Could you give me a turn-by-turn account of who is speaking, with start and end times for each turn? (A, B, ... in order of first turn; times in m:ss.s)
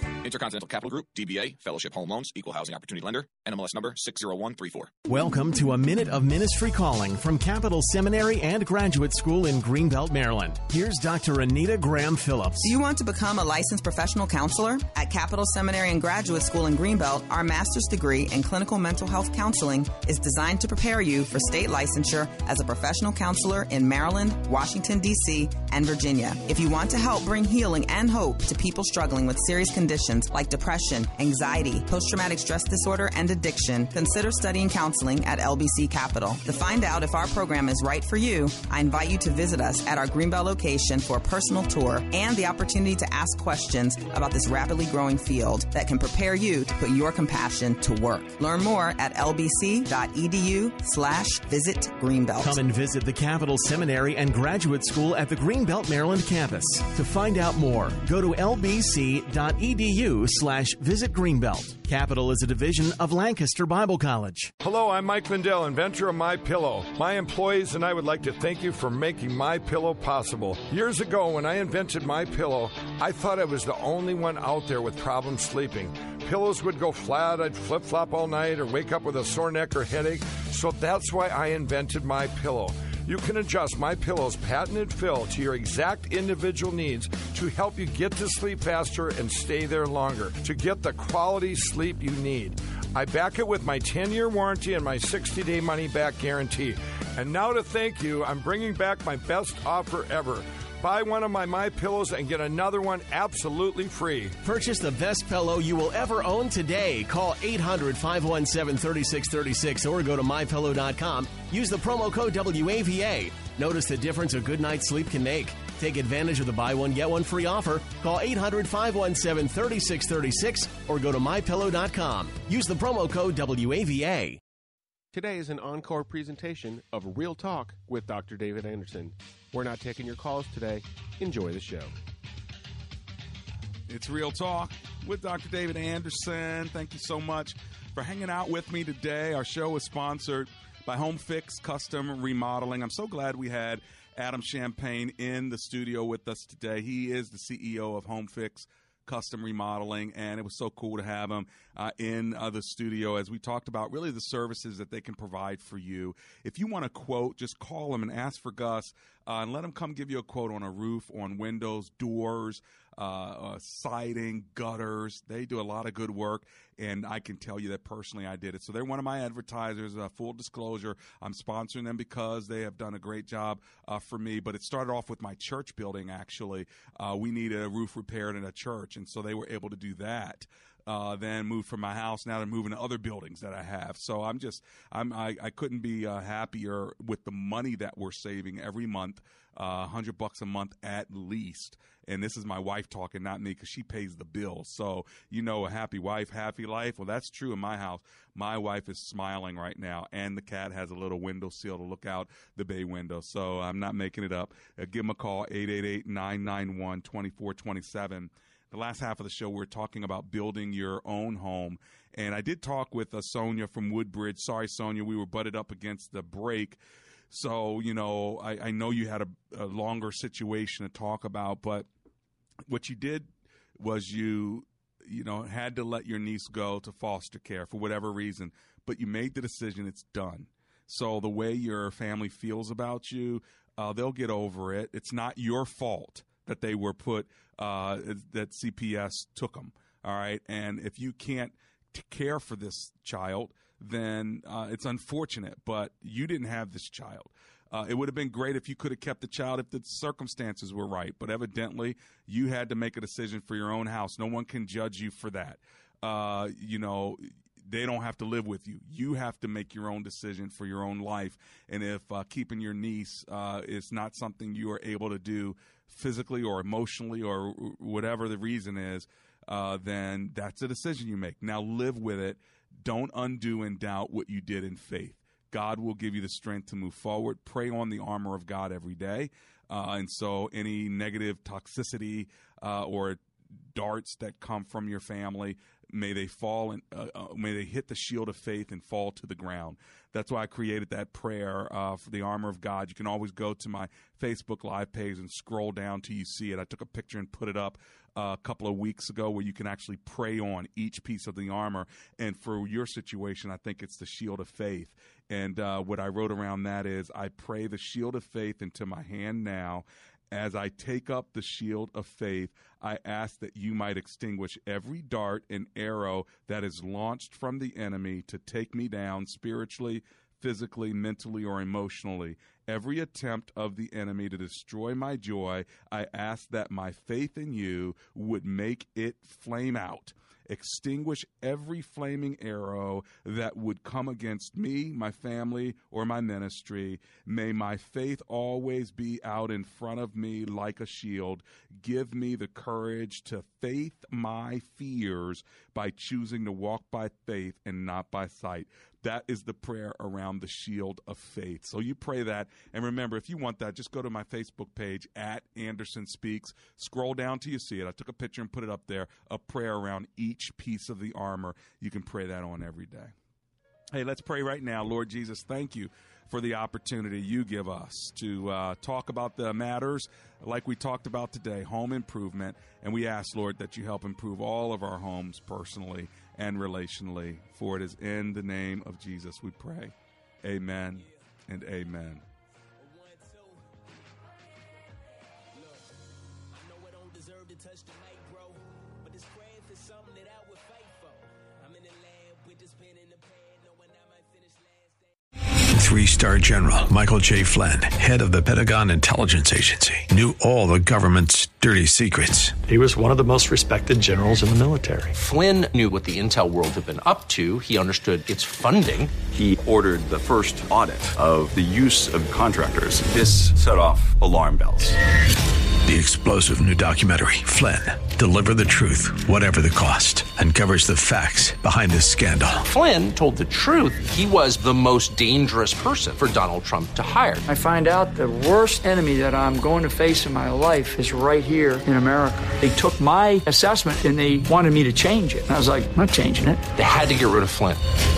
0:00.2-0:04.9 A
0:05.1-0:12.7 B
0:12.6-0:52.6 C
0:52.4-1:04.5 B
1:04.6-1:44.4 D
1:44.4-2:04.4 B
2:05.1-2:11.9 E
2:13.9-3:36.8 F
3:37.3-3:41.9 F
3:42.7-3:43.3 F
3:43.8-4:43.2 F
4:43.7-6:03.1 F
6:03.9-6:22.2 F
6:35.8-6:42.6 G
6:42.7-6:45.1 H
6:45.1-6:49.1 I
6:49.3-6:55.0 J
6:55.8-7:02.6 G
7:02.7-7:07.4 I
7:07.5-7:16.7 K
7:16.7-7:17.8 I